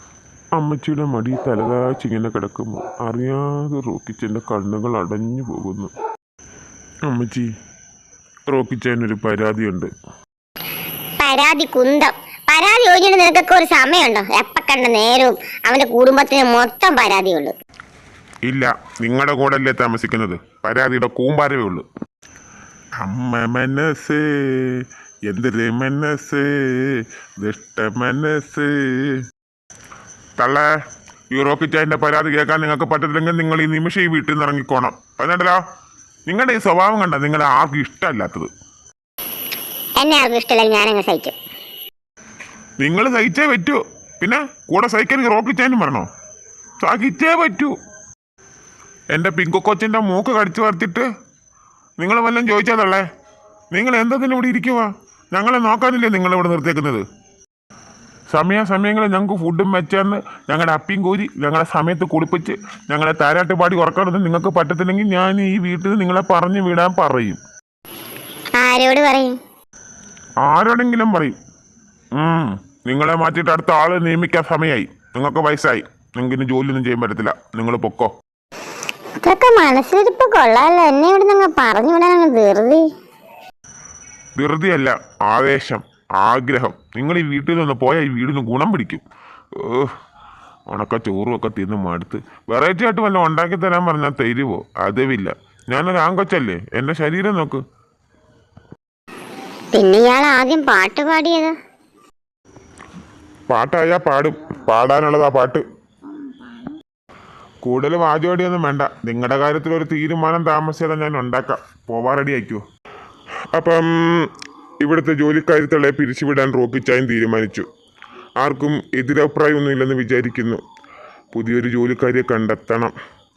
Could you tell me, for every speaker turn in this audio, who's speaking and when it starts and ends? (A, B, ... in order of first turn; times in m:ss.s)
0:00.6-0:05.9 A
0:07.0-0:07.5 A
0:08.5-0:09.9 A
0:11.2-0:17.6 B
0:18.4-0:21.8 A
0:23.0-0:29.2 A
0:30.4-0:30.7 A
0:31.3-0:35.6 A
0:36.3-0:38.5 A
0:40.0-0:41.4 B
0:42.8-0:46.1 A
0:46.8-0:47.7 A
0:49.1-0:51.1 A
0:52.0-0:53.0 A
0:53.7-0:57.0 A
0:58.3-1:07.4 A
1:08.5-1:09.4 B
1:10.4-1:11.4 A
1:12.1-1:18.1 A
1:19.2-1:22.8 B
1:24.4-1:29.0 A
1:29.6-1:29.9 A
1:30.7-1:37.6 A
1:39.7-1:41.5 B
1:43.5-1:45.6 A
1:47.6-1:52.6 A
1:53.5-1:57.6 A
1:58.4-2:00.6 A
2:01.3-2:02.9 A